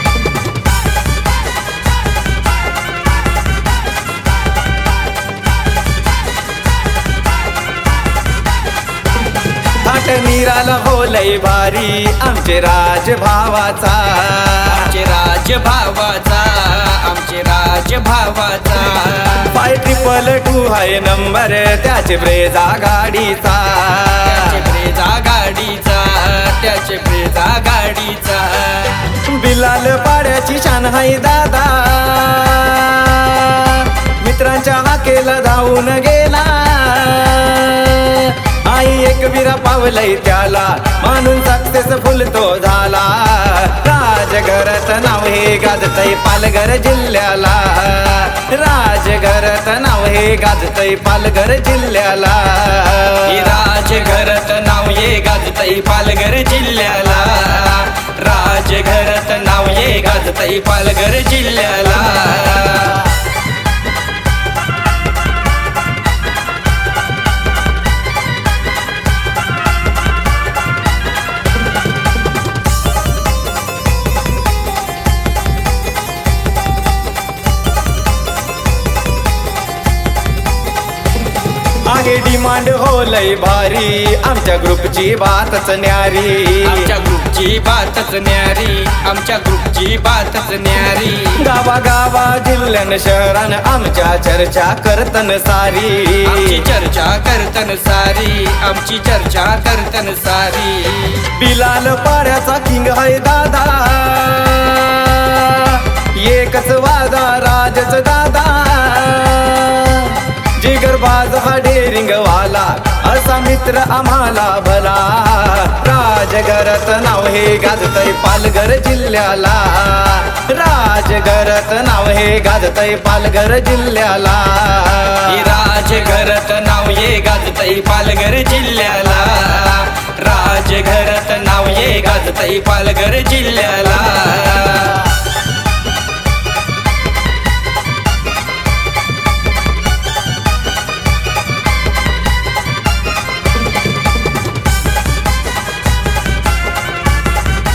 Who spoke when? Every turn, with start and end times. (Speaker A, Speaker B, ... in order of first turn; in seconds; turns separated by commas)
Speaker A: 9.8-14.9, Speaker B: 14.7-19.6, Speaker A: 19.5-24.6, Speaker B: 24.2-29.2, Speaker A: 29.1-53.6, Speaker B: 53.2-63.1, Speaker A: 81.8-86.9, Speaker B: 86.6-91.4, Speaker A: 91.3-96.6, Speaker B: 96.2-101.3, Speaker A: 101.3-125.4, Speaker B: 125.2-135.1